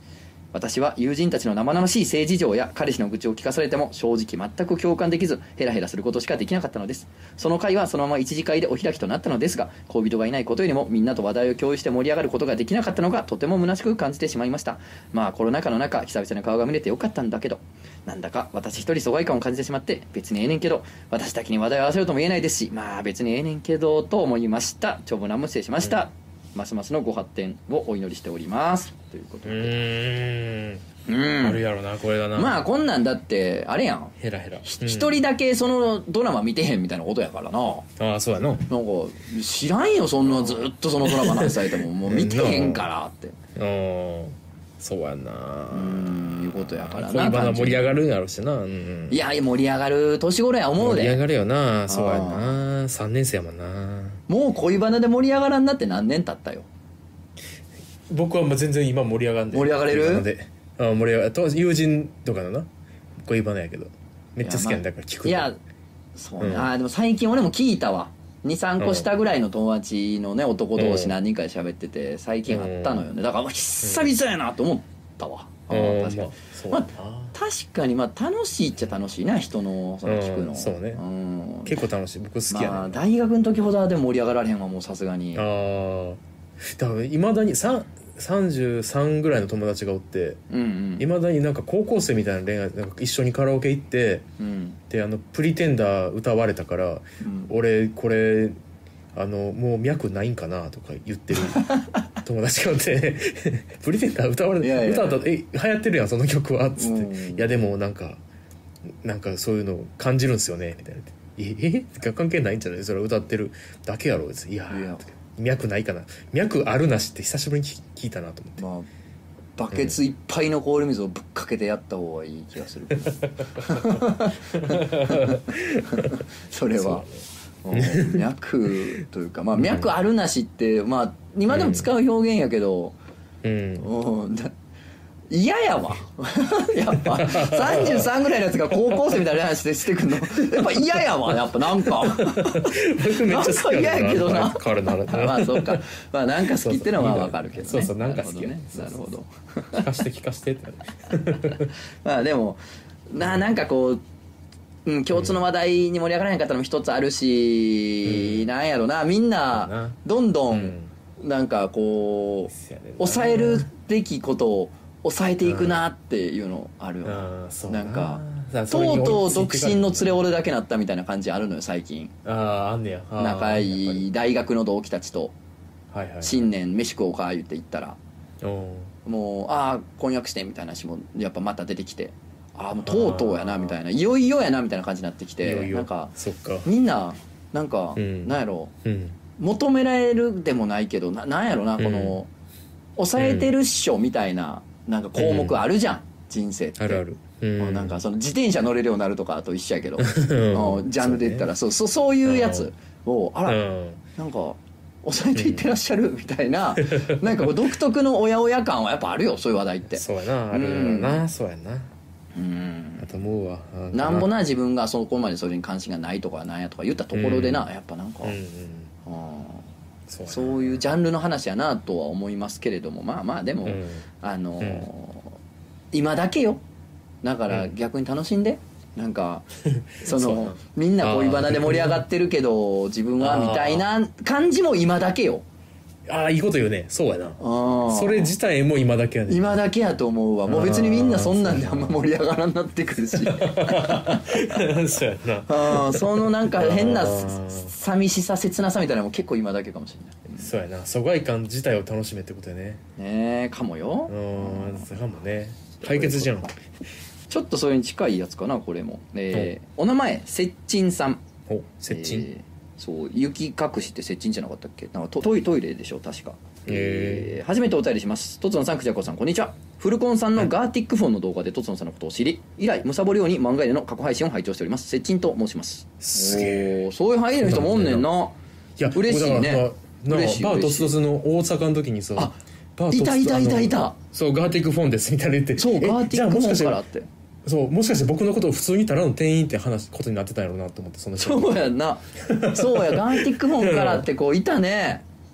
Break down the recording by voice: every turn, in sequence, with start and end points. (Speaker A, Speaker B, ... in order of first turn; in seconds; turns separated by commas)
Speaker A: 0.5-29.8, Speaker B: 29.5-30.8, Speaker A: 31.1-31.6, Speaker B: 31.4-32.6, Speaker A: 32.4-37.9, Speaker B: 34.2-35.2, Speaker B: 38.0-38.7, Speaker A: 38.7-43.4, Speaker B: 41.0-42.9, Speaker B: 43.6-49.2, Speaker A: 45.7-47.9, Speaker A: 49.1-51.2, Speaker B: 50.8-54.2, Speaker A: 51.9-52.6, Speaker A: 54.3-56.7, Speaker B: 58.1-65.5, Speaker A: 59.5-60.3, Speaker A: 64.4-65.6, Speaker A: 66.2-81.8, Speaker B: 66.4-66.7, Speaker B: 68.8-69.1, Speaker B: 70.8-71.2, Speaker B: 72.5-73.1, Speaker B: 73.8-74.1, Speaker B: 75.7-77.3, Speaker B: 80.1-81.0, Speaker B: 81.7-83.0, Speaker A: 82.5-85.5, Speaker B: 85.3-90.4, Speaker A: 90.5-91.1, Speaker B: 91.0-94.3, Speaker A: 94.4-94.8, Speaker B: 94.9-98.6, Speaker A: 97.2-97.5, Speaker B: 99.1-108.2, Speaker A: 104.6-105.2, Speaker A: 106.8-107.5, Speaker B: 109.0-118.6, Speaker A: 114.7-115.1, Speaker A: 118.6-118.9, Speaker A: 119.6-127.1, Speaker B: 123.6-124.0, Speaker B: 124.6-126.2, Speaker B: 126.8-127.0, Speaker A: 127.6-133.0, Speaker B: 127.7-128.2, Speaker B: 129.6-129.9, Speaker B: 131.5-131.9, Speaker B: 133.4-133.9, Speaker A: 133.8-134.5, Speaker A: 135.3-149.9, Speaker B: 137.0-138.1, Speaker B: 140.3-140.9, Speaker B: 141.8-145.8, Speaker B: 146.5-148.9, Speaker B: 149.7-151.7, Speaker A: 152.0-154.0, Speaker A: 154.8-172.2, Speaker B: 158.1-158.5, Speaker B: 159.5-160.0, Speaker B: 160.5-160.9, Speaker B: 162.5-163.7, Speaker B: 165.4-165.8, Speaker B: 167.1-170.2, Speaker B: 172.2-174.1, Speaker A: 173.2-175.3, Speaker B: 175.9-176.5, Speaker A: 176.2-178.0, Speaker B: 178.4-178.9, Speaker A: 179.1-188.7, Speaker B: 182.8-183.8, Speaker B: 185.4-186.7, Speaker B: 188.0-189.2, Speaker A: 189.4-192.3, Speaker B: 191.8-192.2, Speaker A: 193.0-197.0, Speaker B: 193.2-193.5, Speaker B: 195.2-195.6, Speaker B: 196.8-198.0, Speaker A: 197.6-203.6, Speaker B: 200.0-201.5, Speaker B: 202.2-202.7, Speaker B: 203.5-204.0, Speaker A: 204.2-211.2, Speaker B: 205.3-205.7, Speaker B: 206.8-207.5, Speaker B: 209.9-211.9, Speaker A: 212.3-213.1, Speaker B: 213.0-214.3, Speaker A: 213.9-218.4, Speaker B: 217.1-217.7, Speaker B: 218.2-218.9, Speaker A: 219.1-219.7, Speaker B: 220.1-220.8, Speaker A: 220.3-225.3, Speaker B: 223.7-224.0, Speaker B: 224.6-224.9, Speaker A: 225.9-226.6, Speaker A: 227.2-229.5, Speaker B: 229.8-232.1, Speaker A: 230.0-235.4, Speaker B: 233.2-233.9, Speaker B: 236.1-239.6, Speaker A: 237.4-238.3, Speaker A: 239.3-244.7, Speaker B: 240.5-242.0, Speaker B: 243.1-247.7, Speaker A: 245.5-250.5, Speaker B: 250.4-252.8, Speaker A: 253.0-254.9, Speaker B: 254.1-256.5, Speaker A: 255.8-256.5, Speaker A: 257.3-261.2, Speaker B: 261.5-262.3, Speaker A: 261.9-278.4, Speaker B: 266.7-267.4, Speaker B: 276.0-276.9, Speaker B: 277.4-278.1, Speaker B: 278.8-286.8, Speaker A: 278.9-280.9, Speaker A: 282.9-283.9, Speaker A: 285.6-287.1, Speaker B: 287.4-291.6, Speaker A: 291.2-295.0, Speaker B: 292.2-294.1